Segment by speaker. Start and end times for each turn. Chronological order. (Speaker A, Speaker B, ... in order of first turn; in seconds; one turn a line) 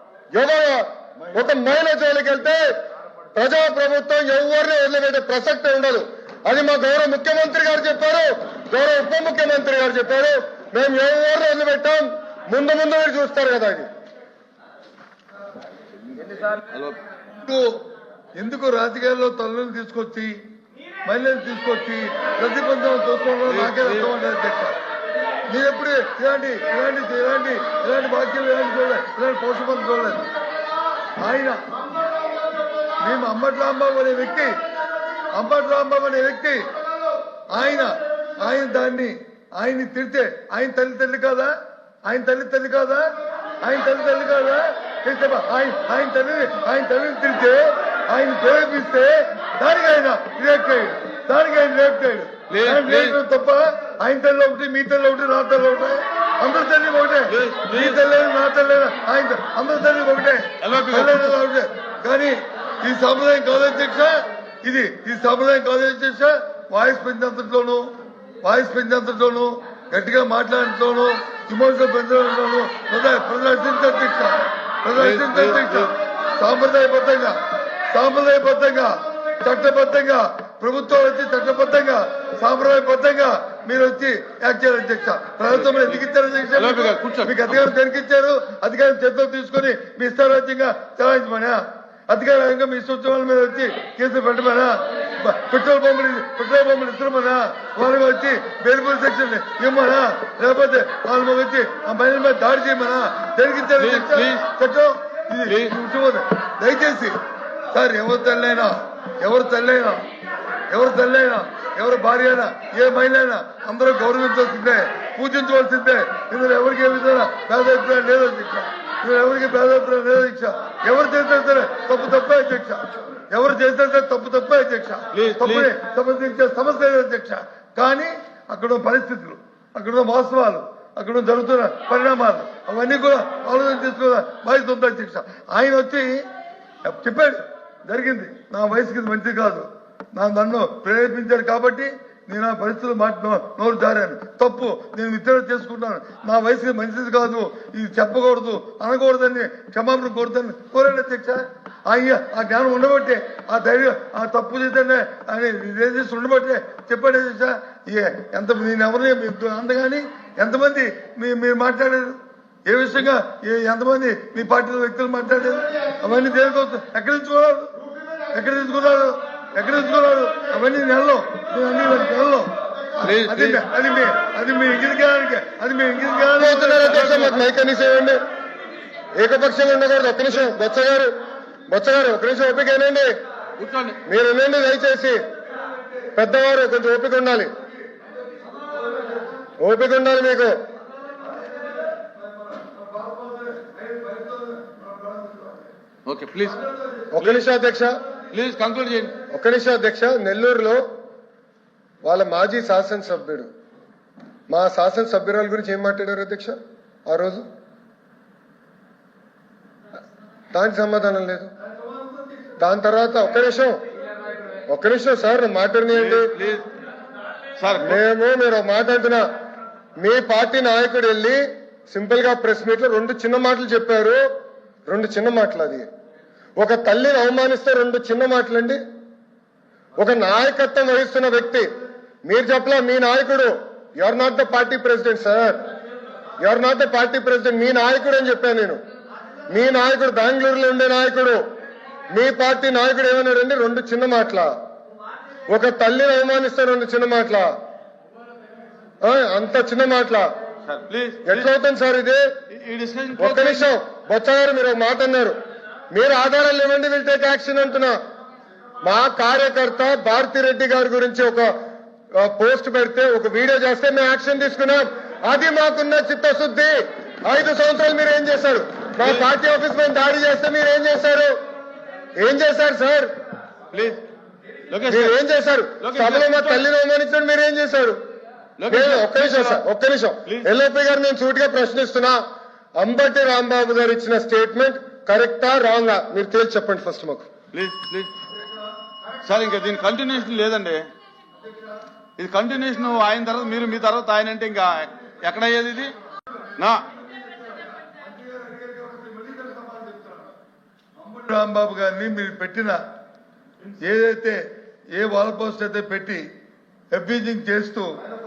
Speaker A: 0.3-2.6
Speaker A: 3.3-13.9
Speaker B: 16.7-17.0
Speaker C: 17.4-17.8
Speaker C: 18.3-20.4
Speaker C: 21.1-24.8
Speaker B: 23.5-24.1
Speaker C: 25.5-30.3
Speaker C: 31.2-31.7
Speaker C: 33.0-34.5
Speaker C: 35.3-36.6
Speaker C: 37.5-41.5
Speaker C: 42.0-67.9
Speaker B: 52.5-53.1
Speaker B: 57.3-58.0
Speaker B: 60.6-61.4
Speaker C: 68.4-107.2
Speaker B: 75.0-75.9
Speaker B: 85.5-86.0
Speaker B: 86.6-87.6
Speaker B: 103.8-104.4
Speaker B: 105.5-105.7
Speaker C: 107.7-110.0
Speaker C: 110.7-136.2
Speaker B: 125.1-125.7
Speaker C: 136.8-167.7
Speaker C: 168.3-177.5
Speaker B: 173.0-173.6
Speaker A: 176.3-178.2
Speaker B: 176.9-177.3
Speaker A: 179.2-181.1
Speaker A: 181.7-183.1
Speaker B: 183.6-184.0
Speaker A: 184.1-185.2
Speaker A: 186.1-187.5
Speaker A: 189.6-190.5
Speaker C: 192.6-195.6
Speaker B: 196.1-196.6
Speaker A: 197.1-198.0
Speaker B: 197.2-197.4
Speaker B: 198.3-199.2
Speaker A: 199.3-200.8
Speaker A: 202.0-203.5
Speaker A: 204.5-207.4
Speaker A: 210.5-211.5
Speaker C: 211.9-212.4
Speaker A: 212.6-213.8
Speaker A: 214.7-216.3
Speaker B: 215.9-216.7
Speaker B: 217.6-218.0
Speaker A: 217.8-219.2
Speaker A: 220.0-224.2
Speaker A: 224.9-225.9
Speaker A: 226.6-228.8
Speaker A: 230.0-231.7
Speaker A: 232.2-235.6
Speaker A: 236.4-238.8
Speaker A: 239.5-241.4
Speaker A: 242.1-244.5
Speaker A: 245.5-247.5
Speaker A: 249.0-250.3
Speaker B: 250.7-251.5
Speaker A: 251.2-252.2
Speaker B: 252.5-253.7
Speaker A: 253.2-255.4
Speaker A: 255.9-257.9
Speaker A: 258.8-261.5
Speaker A: 262.1-271.4
Speaker B: 269.0-269.3
Speaker A: 272.2-273.1
Speaker B: 273.7-274.0
Speaker B: 274.7-275.2
Speaker A: 274.9-278.0
Speaker B: 275.8-276.6
Speaker B: 278.6-279.6
Speaker A: 278.7-282.2
Speaker A: 282.8-287.3
Speaker B: 287.5-288.1
Speaker B: 289.2-290.8
Speaker B: 292.2-295.9
Speaker B: 296.6-296.8
Speaker C: 297.9-300.3
Speaker C: 301.0-302.8
Speaker C: 303.8-306.2
Speaker C: 306.9-307.9